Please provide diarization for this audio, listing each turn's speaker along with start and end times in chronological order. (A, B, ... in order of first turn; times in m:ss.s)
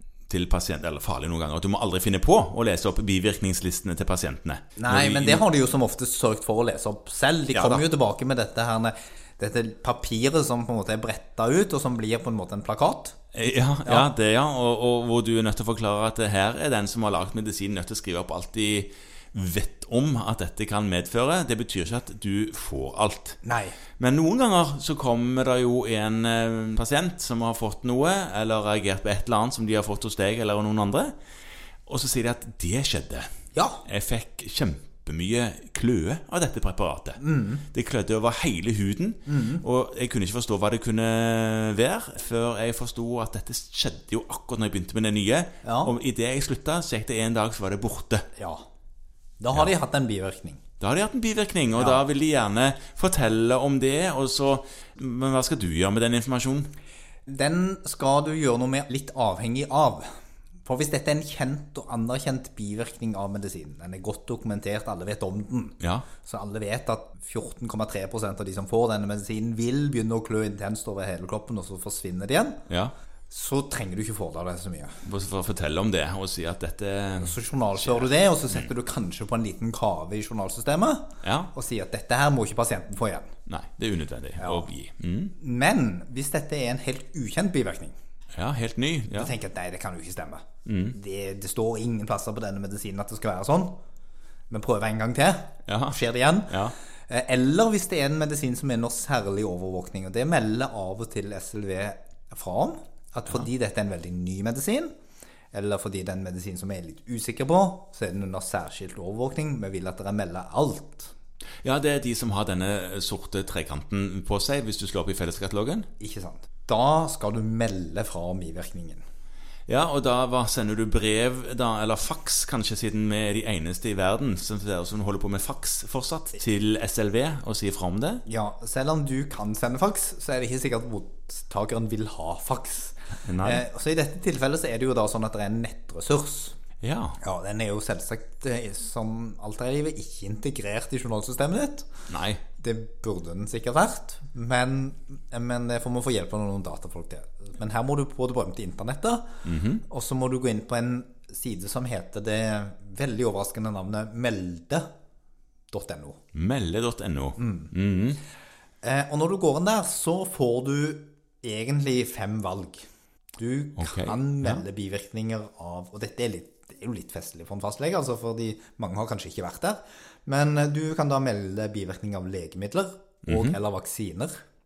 0:00.3-0:05.4 A
0:04.8-0:13.2 B
0:07.5-0:07.8 A
0:13.3-0:23.4 A
0:23.4-0:23.8 B
0:24.0-0:31.1 A
0:31.9-0:33.3 A
0:33.5-0:33.8 B
0:33.8-0:37.2 A
0:37.2-0:37.6 B
0:37.7-0:48.3 A
0:39.3-0:39.6 B
0:45.6-0:45.9 B
0:48.4-0:48.6 B
0:49.4-0:50.6 B
0:50.8-0:56.7 A
0:51.8-0:52.0 B
0:57.3-1:00.0 B
1:00.6-1:12.6 B
1:05.8-1:06.1 A
1:13.3-1:15.0 B
1:15.0-1:17.3 A
1:17.2-1:23.3 B
1:21.2-1:21.5 A
1:23.5-1:25.3 A
1:24.4-1:24.7 B
1:25.4-1:28.0 B
1:28.3-1:29.3 A
1:29.1-1:33.8 B
1:30.6-1:31.0 A
1:34.5-1:44.9 B
1:35.7-1:36.0 A
1:36.5-1:36.7 A
1:45.5-1:51.1 B
1:51.6-1:55.9 A
1:56.0-1:59.0 B
1:59.7-2:08.2 A
2:08.2-2:16.6 B
2:13.2-2:13.6 A
2:16.8-2:17.2 A
2:17.2-2:21.9 B
2:22.1-2:22.4 A
2:22.6-2:29.3 B
2:29.4-2:29.8 A
2:29.9-2:34.9 B
2:35.7-2:36.2 B
2:36.3-2:38.2 A
2:37.4-2:37.7 B
2:38.8-2:42.8 B
2:43.4-2:54.3 B
2:43.8-2:44.6 A
2:53.3-2:53.6 A